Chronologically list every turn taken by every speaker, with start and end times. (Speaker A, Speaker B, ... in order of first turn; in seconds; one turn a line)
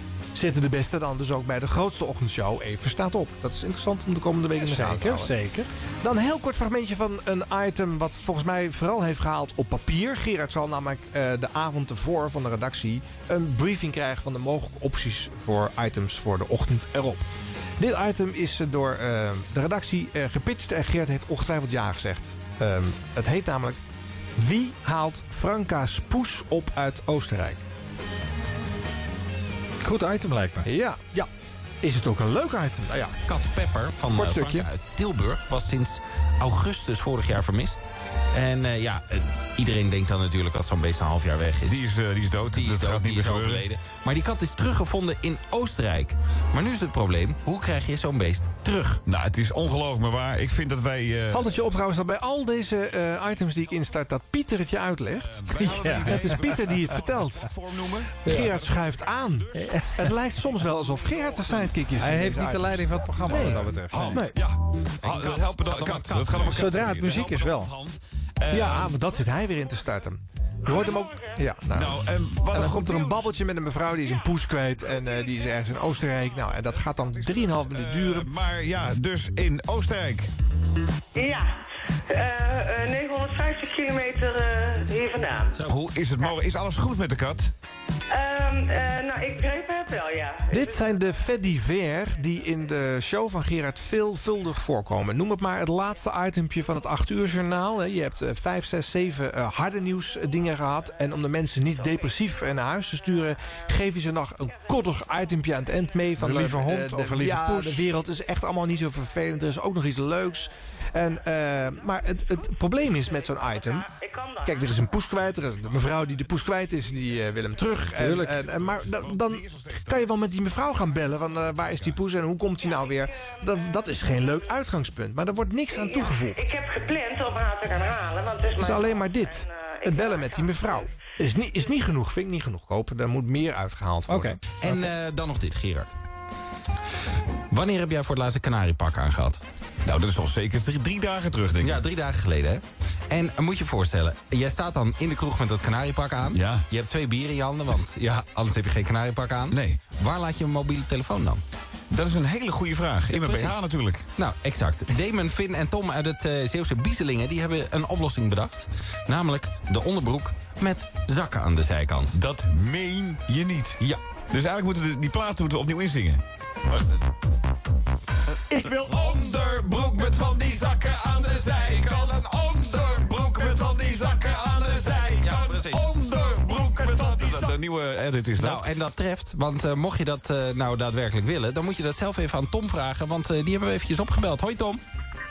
Speaker A: 0.3-5.3
Speaker B: 4.6-5.7
Speaker A: 6.0-23.8
Speaker A: 24.4-27.6
Speaker B: 29.8-31.3
Speaker A: 30.6-31.0
Speaker A: 31.8-33.1
Speaker C: 33.3-37.8
Speaker A: 34.1-34.7
Speaker C: 38.3-41.8
Speaker D: 41.7-43.7
Speaker C: 42.5-49.0
Speaker D: 49.1-51.5
Speaker A: 51.3-55.5
Speaker D: 55.2-59.9
Speaker B: 55.6-56.6
Speaker A: 56.0-57.5
Speaker A: 58.2-64.4
Speaker B: 59.5-60.1
Speaker D: 60.6-61.8
Speaker B: 62.0-64.3
Speaker D: 63.4-68.9
Speaker C: 65.0-66.9
Speaker B: 66.5-67.7
Speaker A: 68.5-78.3
Speaker D: 70.7-71.0
Speaker E: 70.7-71.3
Speaker D: 71.7-73.3
Speaker D: 76.9-80.3
Speaker E: 81.2-81.6
Speaker E: 82.1-85.6
Speaker D: 85.7-87.5
Speaker E: 88.1-90.8
Speaker A: 90.5-113.9
Speaker B: 106.2-107.8
Speaker E: 113.0-114.6
Speaker A: 114.4-126.5
Speaker D: 117.8-120.1
Speaker D: 121.6-122.0
Speaker E: 122.6-123.0
Speaker E: 125.7-130.9
Speaker A: 128.6-134.4
Speaker B: 134.1-134.4
Speaker C: 134.6-135.9
Speaker C: 137.5-139.4
Speaker D: 139.8-141.8
Speaker C: 141.6-151.4
Speaker D: 146.3-146.7
Speaker D: 149.5-149.9
Speaker D: 151.9-154.0
Speaker C: 153.1-153.6
Speaker C: 154.2-162.2
Speaker D: 162.1-163.8
Speaker D: 164.3-167.0
Speaker D: 168.5-178.7
Speaker C: 175.2-175.9
Speaker C: 178.4-184.8